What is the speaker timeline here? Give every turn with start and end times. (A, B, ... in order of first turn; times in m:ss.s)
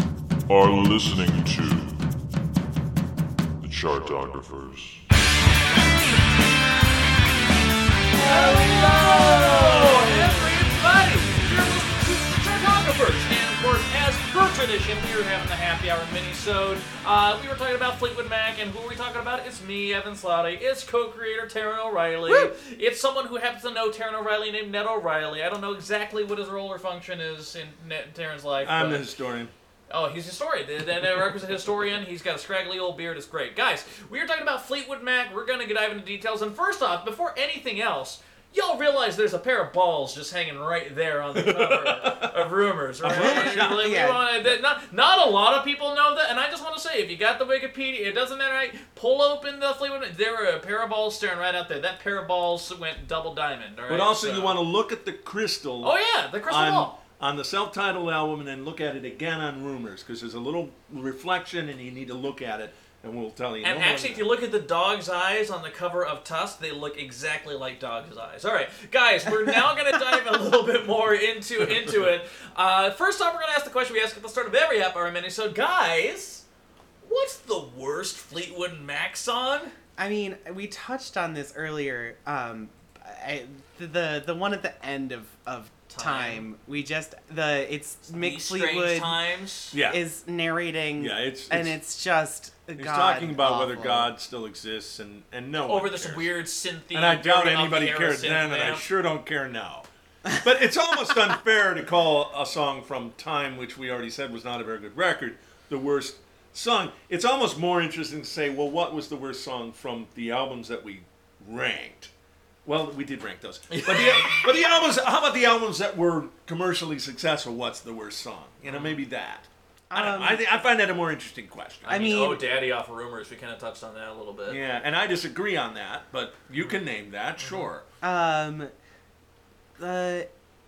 0:00.5-0:02.1 A
0:03.6-0:05.0 A
0:08.2-0:29.1 B
0:08.2-0:08.8 C
0:28.6-0:29.5 D
0:29.9-0:54.6 B
0:41.3-0:42.3 D
0:43.0-0:43.9 D
0:43.1-0:44.2 C
0:53.9-0:56.0 D
0:55.8-0:57.0 B
0:56.5-1:04.2 D
1:03.6-1:16.4 B
1:17.0-1:19.7 B
1:20.0-1:29.2 C
1:25.9-1:26.4 B
1:28.1-1:29.7 B
1:29.7-1:30.0 D
1:29.7-1:34.1 C
1:31.0-1:31.8 D
1:32.8-1:36.3 D
1:35.6-1:38.8 B
1:36.9-1:52.1 D
1:52.6-2:02.0 D
1:53.7-1:54.6 B
1:58.6-1:59.0 B
1:59.9-2:00.4 C
2:01.8-2:04.6 B
2:01.9-2:02.4 C
2:04.5-2:07.8 D
2:08.0-2:08.7 C
2:09.8-2:10.3 C